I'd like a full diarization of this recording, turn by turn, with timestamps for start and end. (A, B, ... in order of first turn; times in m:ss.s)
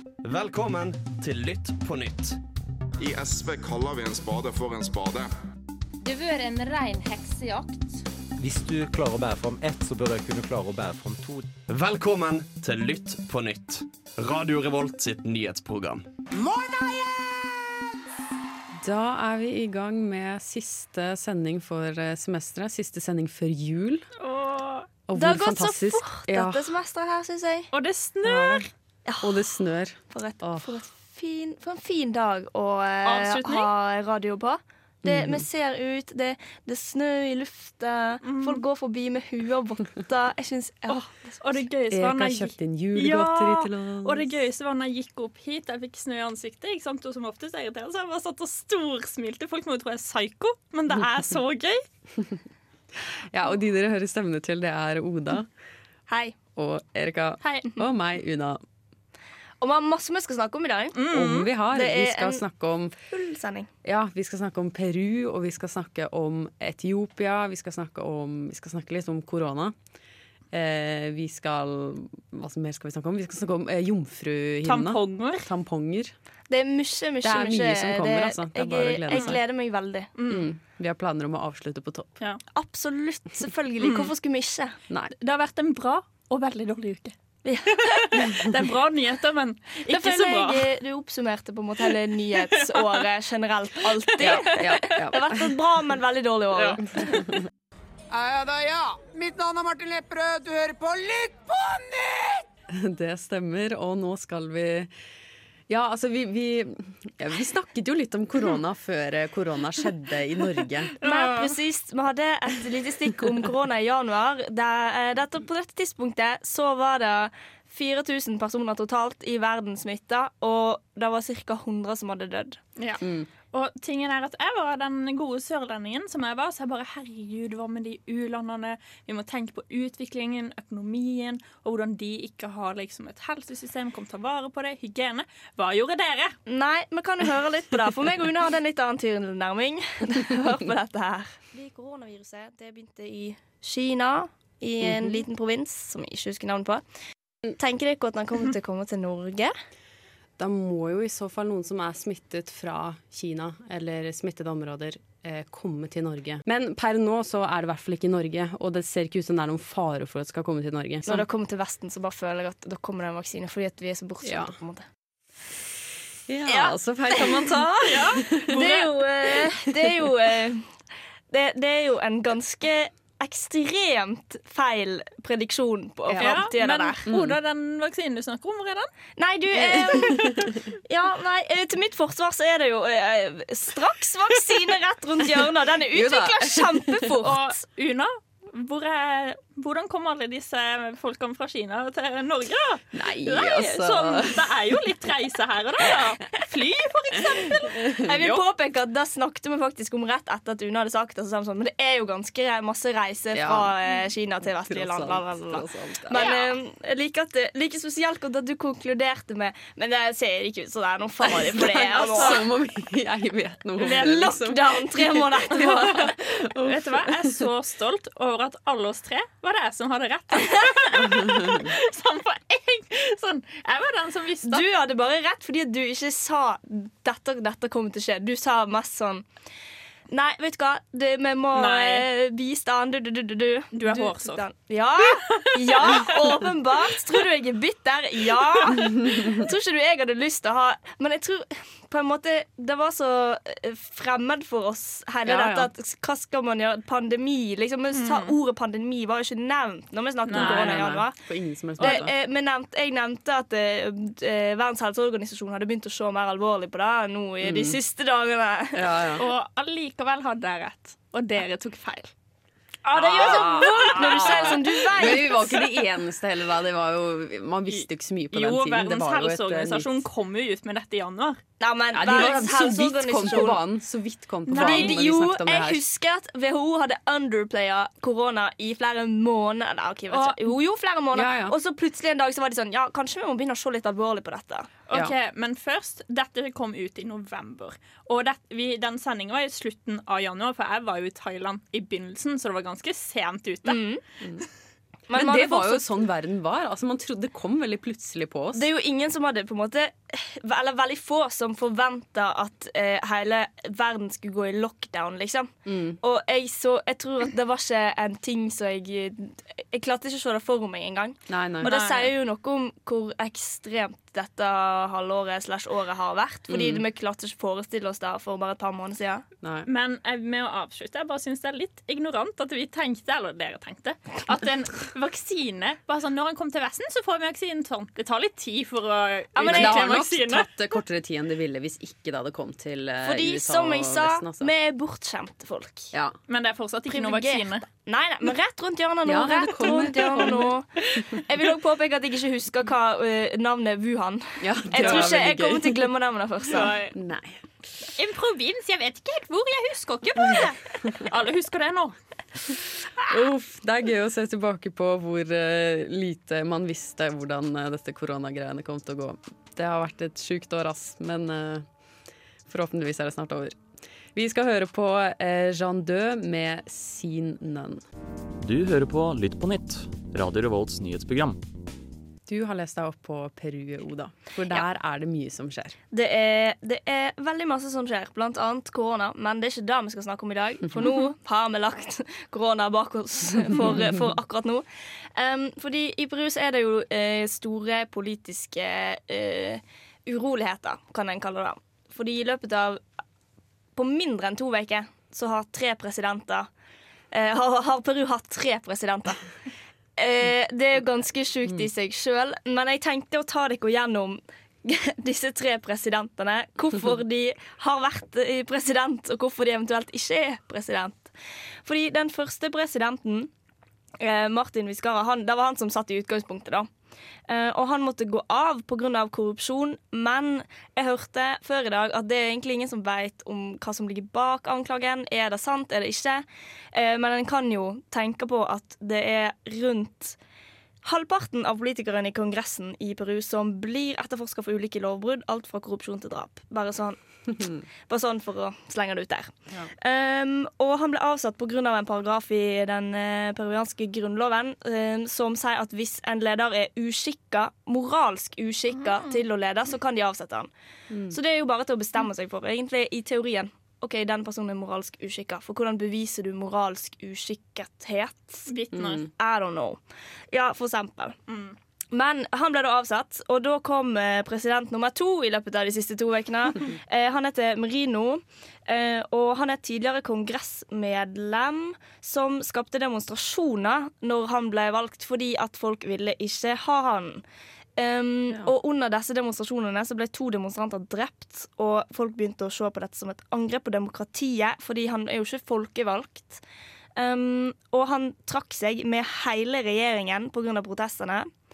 0:00.2-0:02.4 A
0:03.0-0:05.3 B
0:06.0-0:08.0 C
0:08.4-0:11.5 D
0:11.7-0:16.0 A
0:16.4-0:17.7 E
0:18.8-0:24.0 F
0:24.2-0:24.9 G
0:25.1-0:26.8 F
0:25.1-0:27.7 H
0:27.7-0:28.7 G
0:28.2-0:28.6 F
0:29.1-0:29.4 H
0:29.2-0:30.7 F
0:30.1-0:41.4 H
0:33.0-0:33.7 G
0:35.0-0:35.4 F
0:38.2-0:38.6 G
0:40.9-0:51.8 G
0:41.9-0:44.3 F
0:53.3-0:55.5 F
0:56.1-0:56.3 H
0:56.6-0:58.6 F
0:57.4-0:57.7 G
0:59.6-1:01.0 H
1:00.9-1:01.5 G
1:01.1-1:02.9 F
1:01.7-1:02.4 H
1:03.1-1:03.7 H
1:03.8-1:09.7 F
1:10.5-1:16.1 F
1:14.6-1:15.4 G
1:16.5-1:20.1 H
1:17.2-1:19.4 F
1:20.2-1:20.5 G
1:20.3-1:22.2 F
1:22.5-1:24.8 H
1:23.8-1:24.1 G
1:25.2-1:27.1 G
1:27.4-1:28.4 H
1:27.7-1:30.7 G
1:29.9-1:36.8 H
1:32.4-1:32.8 G
1:34.2-1:35.6 F
1:36.6-1:37.4 F
1:38.1-1:42.4 E
1:42.7-1:44.9 F
1:45.7-1:50.9 F
1:51.0-1:51.6 G
1:51.0-2:02.6 H
2:02.8-2:16.4 G
2:03.0-2:03.3 F
2:16.5-2:26.8 H
2:24.8-2:25.2 F
2:27.6-2:29.5 H
2:30.4-2:41.2 F
2:41.0-2:44.8 H
2:44.2-2:44.5 F
2:46.3-2:48.6 F
2:46.5-2:47.8 H
2:47.8-2:48.9 G
2:48.5-2:50.7 H
2:51.3-2:57.0 H
2:56.1-2:56.4 F
2:56.2-2:58.9 G
2:57.0-2:57.4 F
2:59.2-3:07.6 H
2:59.5-3:00.5 F
3:05.9-3:07.2 F
3:07.2-3:18.4 G
3:12.9-3:14.6 F
3:18.0-3:32.4 H
3:23.3-3:23.7 F
3:24.4-3:26.2 F
3:26.1-3:26.5 G
3:31.5-3:37.4 F
3:31.9-3:32.4 G
3:33.8-3:36.1 H
3:36.6-3:44.6 G
3:41.0-3:41.7 F
3:44.4-3:49.2 H
3:50.1-4:11.2 H
3:51.5-3:52.0 G
3:53.7-3:54.4 G
3:55.3-3:56.2 G
3:58.9-3:59.2 F
4:05.2-4:05.7 F
4:07.9-4:08.4 G
4:10.3-4:12.1 F
4:10.3-4:10.8 G
4:11.8-4:19.1 H
4:17.4-4:17.8 F
4:18.7-4:19.2 F
4:19.2-4:22.1 G
4:22.9-4:25.6 H
4:22.9-4:25.3 G
4:22.9-4:29.9 F
4:27.7-4:31.4 G
4:31.6-4:33.6 H
4:31.9-4:35.8 F
4:34.5-4:35.0 G
4:34.5-4:44.7 H
4:40.1-4:40.5 G
4:41.1-4:41.6 F
4:44.9-4:53.8 G
4:53.6-4:54.0 H
4:55.1-4:55.8 H
4:55.1-4:58.6 F
4:58.5-5:19.2 H
5:05.6-5:06.0 F
5:11.3-5:11.7 F
5:11.6-5:12.1 G
5:16.5-5:16.8 F
5:19.4-5:19.7 F
5:19.6-5:30.5 G
5:29.4-5:30.0 H
5:29.4-5:34.5 F
5:33.0-5:35.9 H
5:35.9-5:36.2 F
5:36.3-5:37.6 G
5:36.9-5:46.7 H
5:39.0-5:41.2 F
5:39.8-5:41.0 G
5:44.4-5:45.9 F
5:44.8-5:45.1 G
5:46.5-5:46.9 G
5:46.9-5:47.4 F
5:48.0-5:52.0 G
5:50.2-5:50.5 F
5:53.1-6:01.6 F
6:02.5-6:03.6 F
6:04.1-6:07.8 F
6:08.4-6:11.4 I
6:12.3-6:15.8 F
6:15.9-6:24.6 H
6:23.5-6:23.8 F
6:25.1-6:32.8 H
6:33.8-6:36.5 H
6:37.1-6:39.2 H
6:40.0-6:51.1 H
6:51.6-6:53.3 H
6:54.0-6:56.7 H
6:57.3-7:10.2 H
7:10.8-7:30.5 H
7:30.9-7:31.2 F
7:31.1-7:38.5 H
7:38.5-7:39.0 G
7:38.7-7:39.0 F
7:39.1-7:39.8 H
7:40.3-7:41.2 H
7:41.3-7:41.6 G
7:41.9-7:57.2 H
7:57.8-8:06.4 H
8:07.0-8:11.3 H